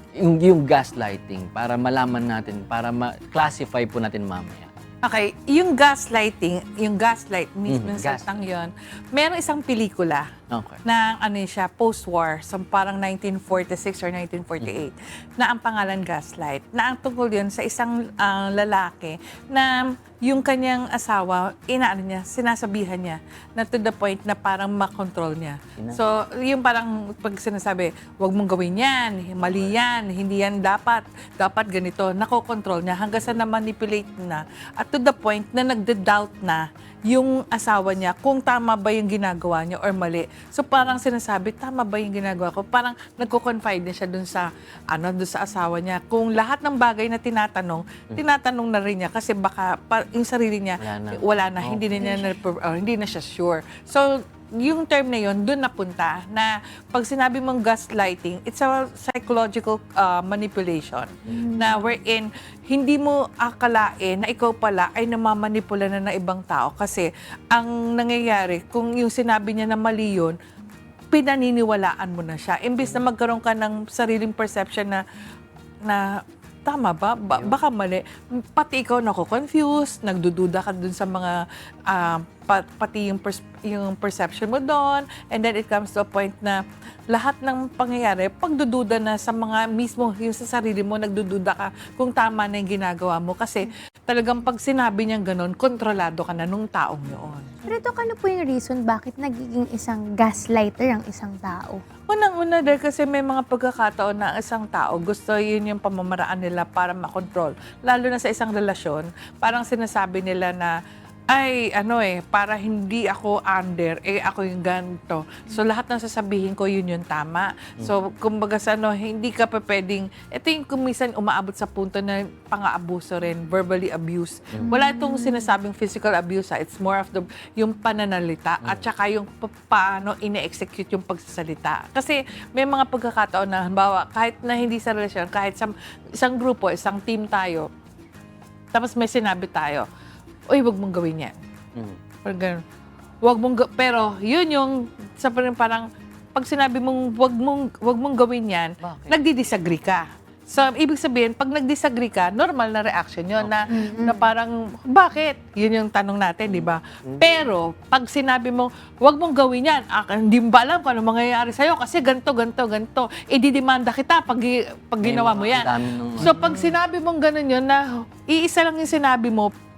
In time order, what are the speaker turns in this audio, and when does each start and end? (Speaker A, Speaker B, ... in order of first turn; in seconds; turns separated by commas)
Speaker A: 0.2-4.7, Speaker B: 5.0-10.3, Speaker A: 7.7-8.5, Speaker A: 10.5-10.8, Speaker B: 10.8-70.4, Speaker A: 25.8-26.0, Speaker A: 29.4-29.8, Speaker A: 33.1-33.4, Speaker A: 50.8-52.2, Speaker C: 52.0-52.4, Speaker C: 61.3-61.7, Speaker B: 71.1-75.0, Speaker B: 76.7-86.6, Speaker A: 77.3-77.6, Speaker B: 87.1-97.5, Speaker C: 97.7-101.8, Speaker B: 102.1-110.7, Speaker B: 111.3-137.7, Speaker C: 124.6-125.5, Speaker B: 138.7-139.9, Speaker B: 140.5-141.3, Speaker B: 142.2-142.6, Speaker B: 143.2-169.5, Speaker A: 148.8-149.2, Speaker A: 153.4-153.6, Speaker C: 153.7-154.3, Speaker A: 156.5-157.4, Speaker A: 165.0-166.5